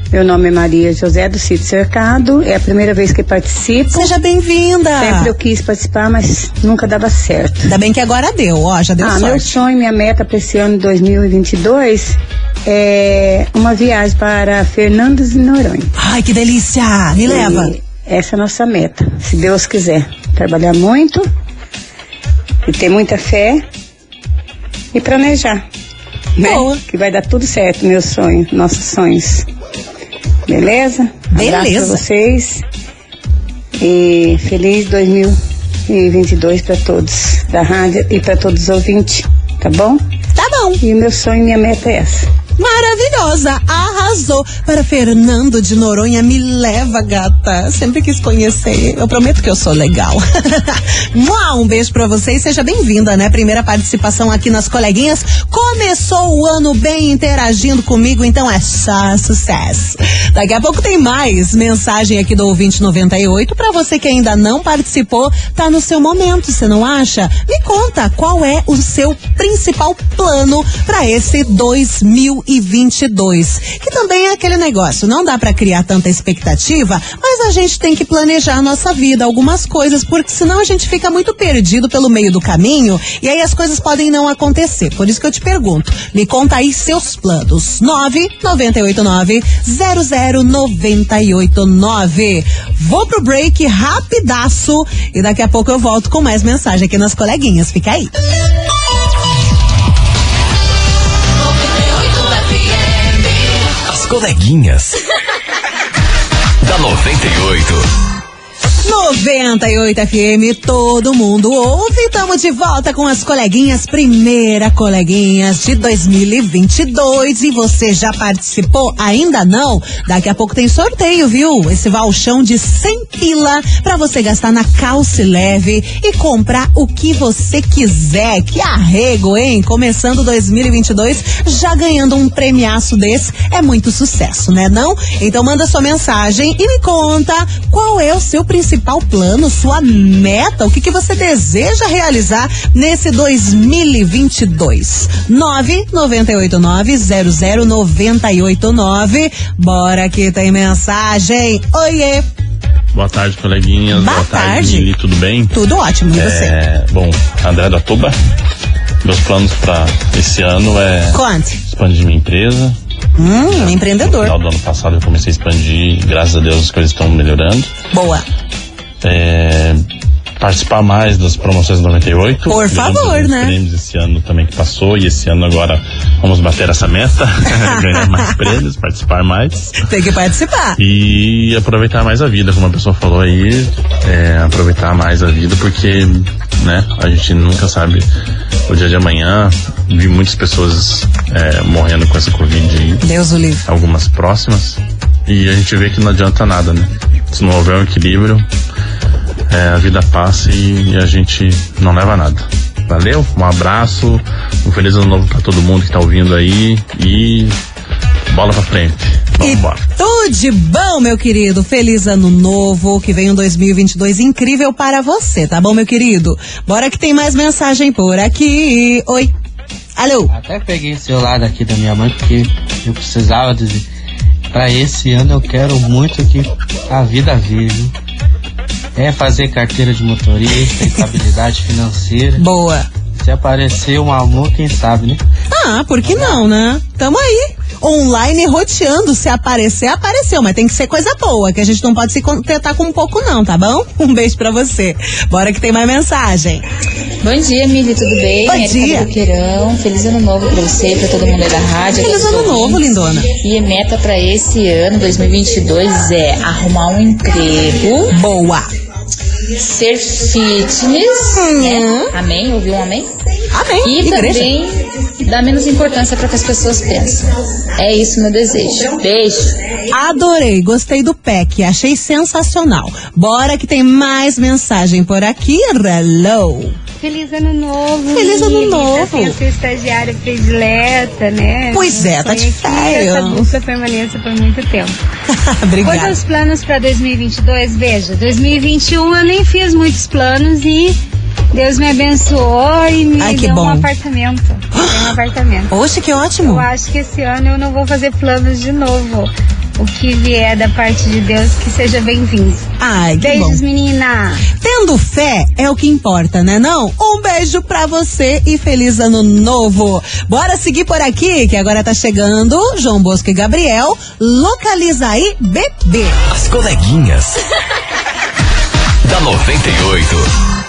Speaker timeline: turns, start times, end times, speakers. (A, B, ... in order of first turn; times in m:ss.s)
0:00.1-0:04.1 A
0:03.9-0:05.3 B
0:05.0-0:07.7 A
0:07.6-0:09.5 B
0:09.0-0:15.9 A
0:16.0-0:17.7 B
0:17.2-0:21.3 A
0:22.6-0:23.6 A
0:24.9-0:25.6 A
0:26.4-0:29.5 A
0:26.4-0:26.8 B
0:30.5-0:32.6 A
0:31.3-0:32.0 B
0:33.8-0:40.0 A
0:40.4-0:40.8 B
0:40.8-0:42.3 A
0:42.6-1:38.1 B
1:43.8-1:45.0 C
1:46.6-1:47.8 C
1:48.8-2:32.2 B
2:32.9-2:35.6 D
2:33.9-2:34.9 B
2:35.5-2:36.5 B
2:36.1-2:38.2 D
2:39.0-2:42.8 D
2:41.1-2:41.6 B
2:43.2-2:44.3 B
2:43.5-2:47.7 D
2:47.9-2:48.2 B
2:49.0-2:49.8 D
2:50.4-2:59.7 D
2:52.5-2:53.5 B
2:57.6-2:58.3 B
2:59.8-3:00.8 B
3:00.8-3:08.1 D
3:08.7-3:13.0 D
3:13.0-3:13.6 B
3:13.6-3:18.4 D
3:19.5-3:27.6 D
3:28.3-3:29.8 D
3:29.4-3:39.3 B
3:40.0-3:40.3 B
3:40.3-3:43.8 E
3:44.5-3:47.9 E
3:49.0-3:52.5 E
3:52.4-3:52.8 B
3:53.2-3:55.2 E
3:55.5-4:06.6 B
3:56.0-3:56.5 E
4:07.2-4:18.2 F
4:08.4-4:09.1 B
4:11.9-4:13.3 B
4:18.1-4:18.7 B
4:19.6-4:23.1 F
4:21.4-4:22.1 B
4:23.5-4:24.5 B
4:23.8-4:29.6 F
4:29.9-4:36.8 B
4:37.0-4:45.0 G
4:38.1-4:39.4 B
4:41.7-4:43.5 B
4:45.3-4:46.2 B
4:45.8-4:51.0 G
4:51.5-4:55.7 G
4:53.2-4:53.9 B
4:54.7-4:55.2 B
4:55.7-4:56.7 B
4:56.4-5:02.6 G
5:02.8-5:03.6 B
5:03.2-5:04.5 G
5:04.6-5:16.2 B
5:16.3-5:17.4 C
5:19.0-5:20.3 C